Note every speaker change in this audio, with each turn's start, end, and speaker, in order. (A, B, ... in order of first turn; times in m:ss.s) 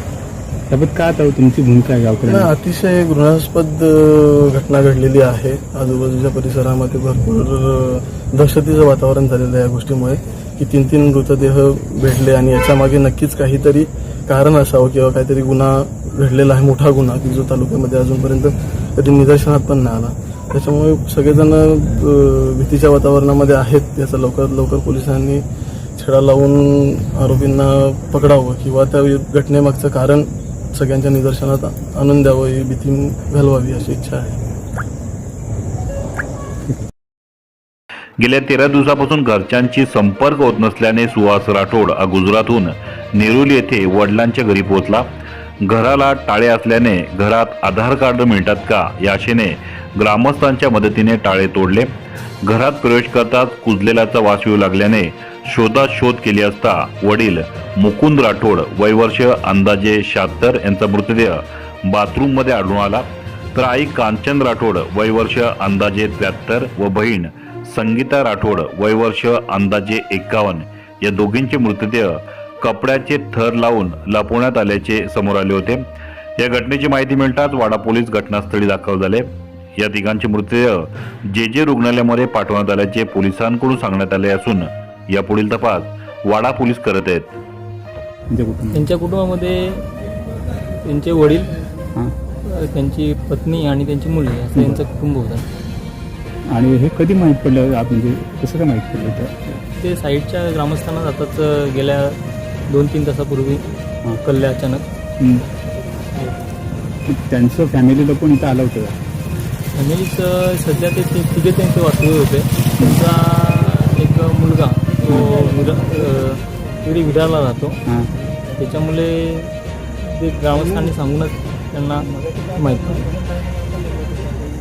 0:00.7-0:02.5 A
0:02.3-0:25.4 B
0:26.0-0:34.4 B
0:38.2-0:45.0 C
0:45.6-0:51.9 C
0:52.4-1:15.8 C
1:16.4-1:27.3 C
1:28.3-1:28.9 A
1:28.7-1:29.9 D
1:30.8-1:31.5 D
1:32.4-1:35.5 D
1:36.5-1:39.6 A
1:39.8-1:43.6 D
1:44.2-1:44.9 D
1:45.2-1:45.4 A
1:47.0-1:49.0 A
1:49.7-1:57.8 D
1:58.6-2:03.1 D